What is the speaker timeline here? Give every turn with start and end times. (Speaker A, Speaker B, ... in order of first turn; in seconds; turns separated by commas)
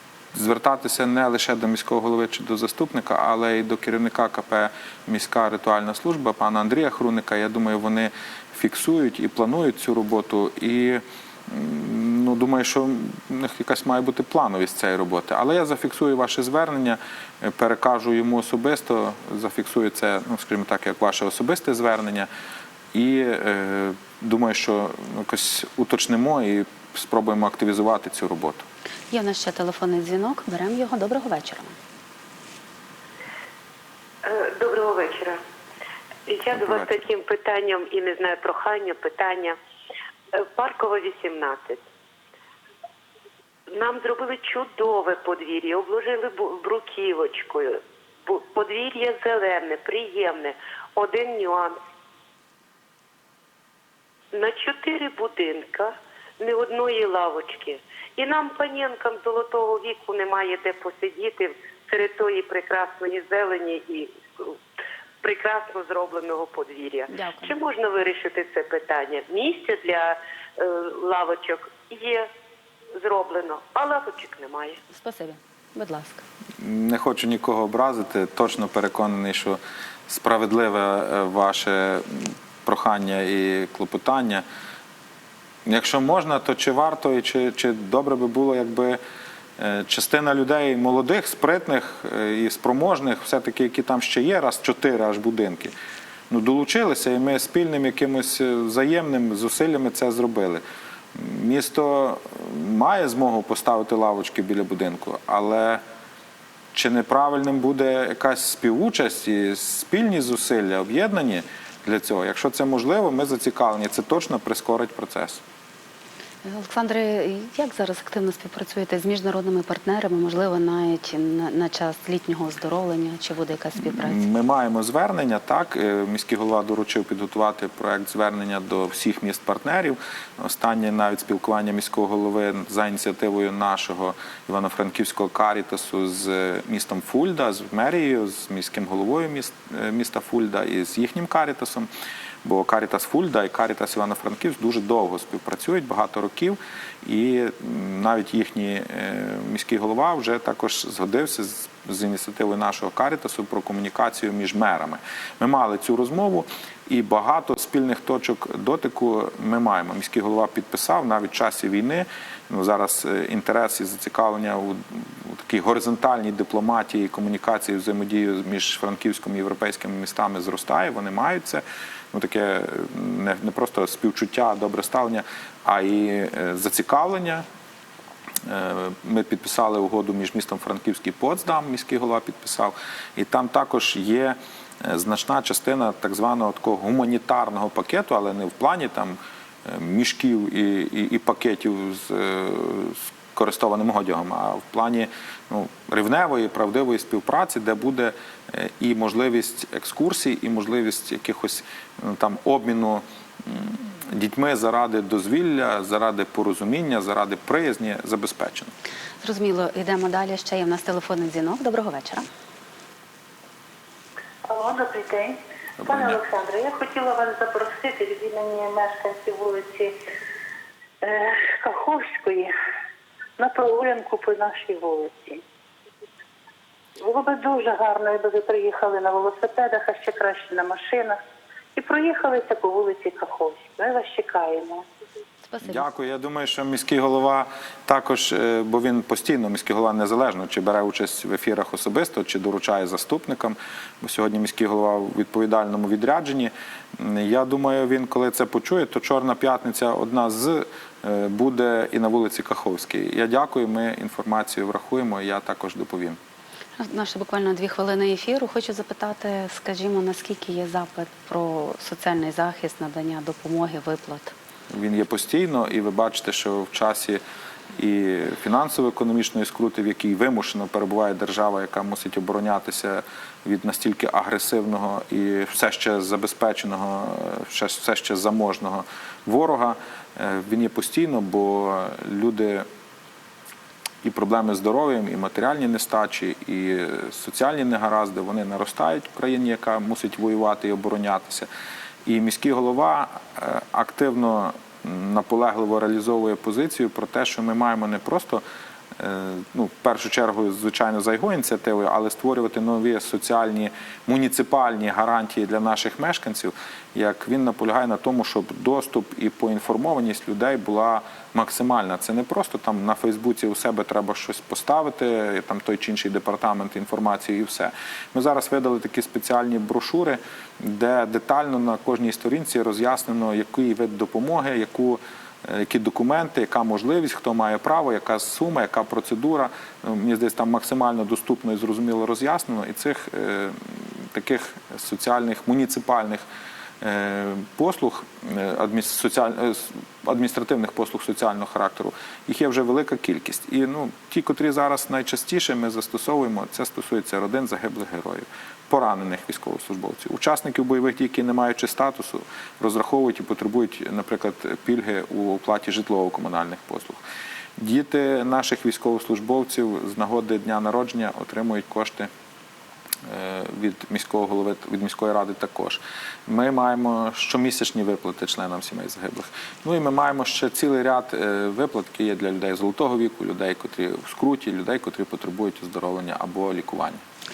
Speaker A: 0.3-22.3, Speaker A: 22.9-28.6, Speaker B: 29.1-31.8, Speaker C: 34.2-35.4, Speaker C: 36.2-39.5, Speaker A: 36.5-36.9, Speaker C: 40.3-41.8, Speaker C: 43.7-51.8, Speaker C: 54.3-64.6, Speaker C: 65.2-72.3, Speaker B: 67.1-67.5, Speaker C: 72.9-74.8, Speaker B: 74.9-76.2, Speaker A: 76.6-84.4, Speaker A: 85.6-89.0, Speaker A: 89.6-95.7, Speaker A: 96.3-100.6, Speaker A: 101.1-105.8, Speaker A: 106.7-115.4, Speaker B: 116.4-124.2, Speaker A: 123.8-141.9, Speaker A: 142.4-177.4, Speaker A: 178.4-208.7, Speaker B: 209.2-212.2, Speaker D: 214.4-220.0, Speaker A: 215.8-216.2, Speaker D: 221.0-222.5, Speaker D: 223.4-225.4, Speaker D: 227.0-231.2, Speaker D: 231.7-234.8, Speaker B: 235.5-235.9, Speaker A: 235.6-256.2, Speaker B: 256.8-264.3, Speaker A: 264.7-267.2, Speaker A: 267.7-282.6, Speaker A: 284.0-291.5, Speaker A: 292.1-298.4, Speaker A: 298.9-336.2, Speaker A: 336.8-357.0, Speaker A: 357.6-362.1, Speaker A: 363.0-377.0